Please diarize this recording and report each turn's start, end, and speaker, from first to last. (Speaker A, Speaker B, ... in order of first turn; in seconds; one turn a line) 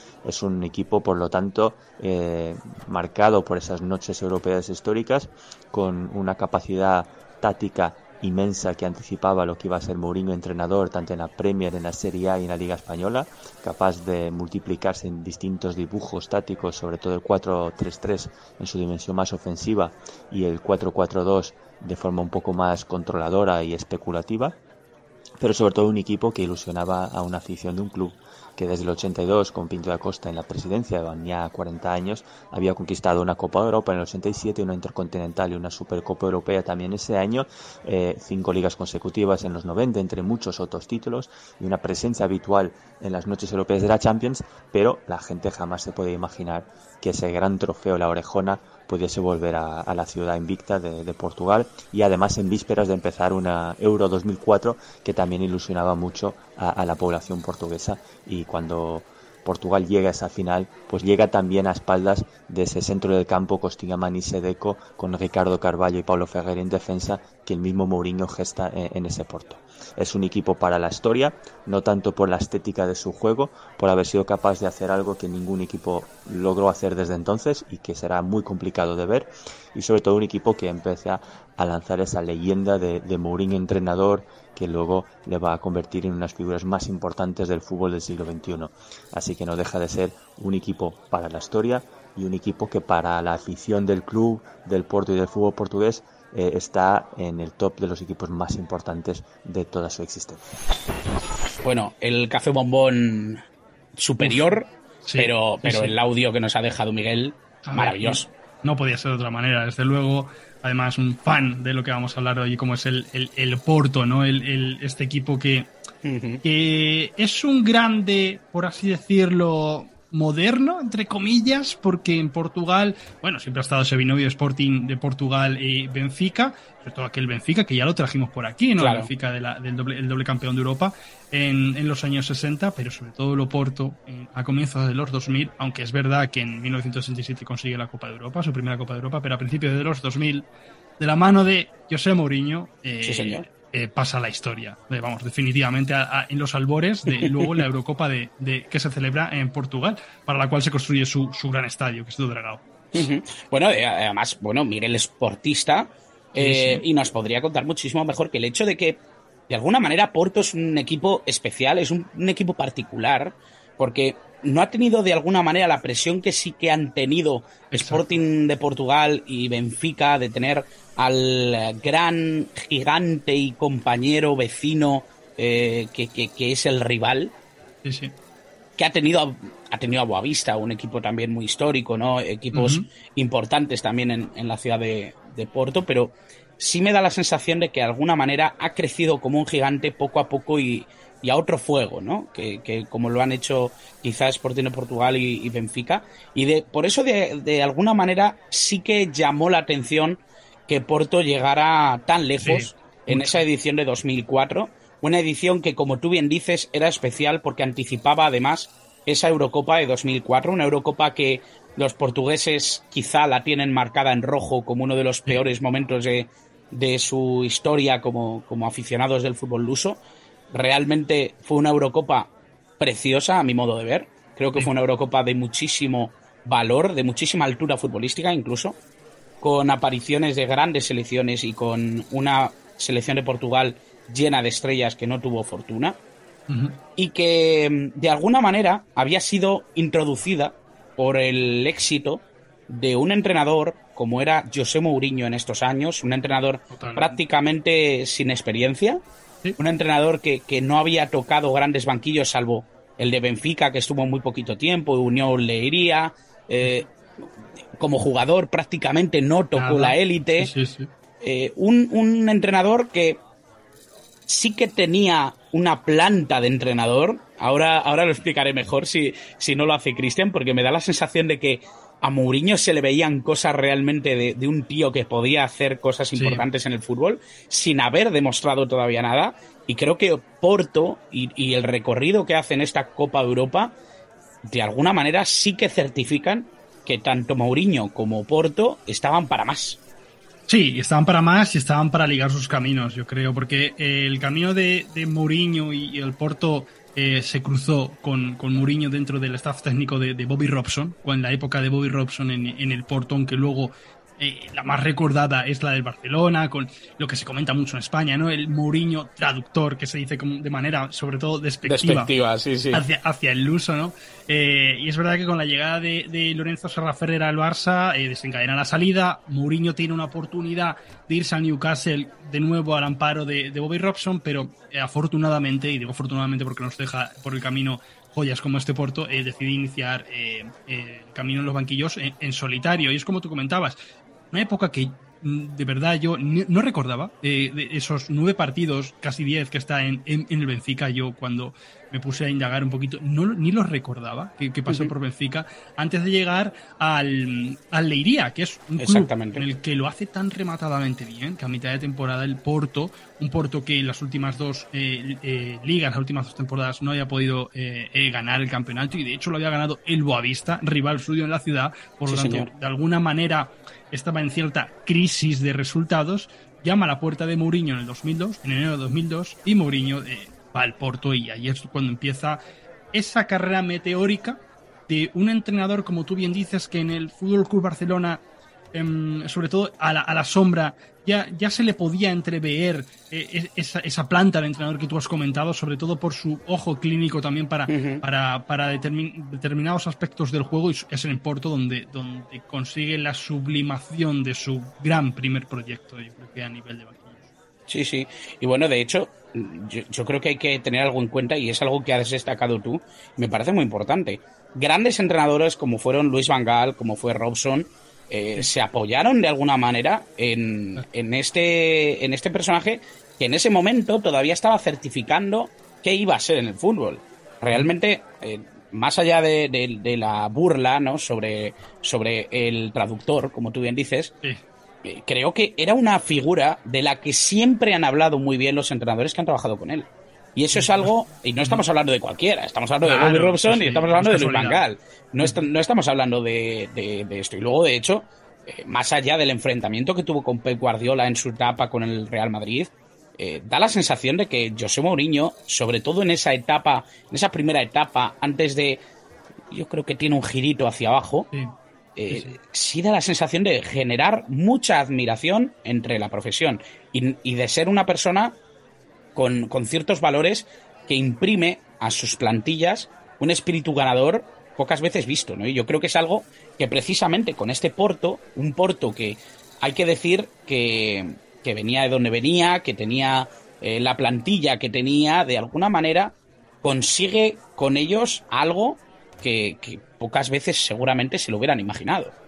Speaker A: 0.2-24.6
Speaker A: 25.4-100.5
Speaker B: 101.6-103.4
Speaker B: 104.0-108.3
Speaker C: 104.2-104.5
Speaker C: 105.0-106.0
Speaker C: 107.7-115.7
Speaker B: 116.0-116.4
Speaker C: 116.4-140.5
Speaker B: 128.8-129.1
Speaker C: 141.0-153.1
Speaker B: 143.1-143.4
Speaker B: 147.2-147.5
Speaker B: 152.9-177.3
Speaker C: 156.4-156.8
Speaker C: 167.7-168.2
Speaker C: 177.8-178.1
Speaker B: 178.8-220.0
Speaker C: 182.5-182.9
Speaker C: 202.4-203.4
Speaker B: 220.5-228.8
Speaker B: 229.4-236.0
Speaker C: 236.5-236.8
Speaker B: 237.0-249.0
Speaker C: 246.7-247.2
Speaker B: 249.6-257.2
Speaker B: 257.8-260.5
Speaker C: 259.6-260.9
Speaker B: 261.2-263.2
Speaker B: 264.3-283.7
Speaker C: 276.2-276.4
Speaker B: 284.4-289.8
Speaker C: 290.5-312.1
Speaker B: 311.6-312.8
Speaker C: 312.7-333.8
Speaker C: 334.3-372.4
Speaker B: 348.8-349.4
Speaker B: 362.1-362.5
Speaker C: 372.9-378.2
Speaker C: 378.7-397.2
Speaker B: 387.7-388.0
Speaker B: 397.7-424.1
Speaker B: 424.8-448.8
Speaker C: 430.6-431.6
Speaker C: 432.8-434.6
Speaker B: 449.5-451.3
Speaker B: 452.0-458.4
Speaker C: 452.1-452.4
Speaker B: 459.1-482.1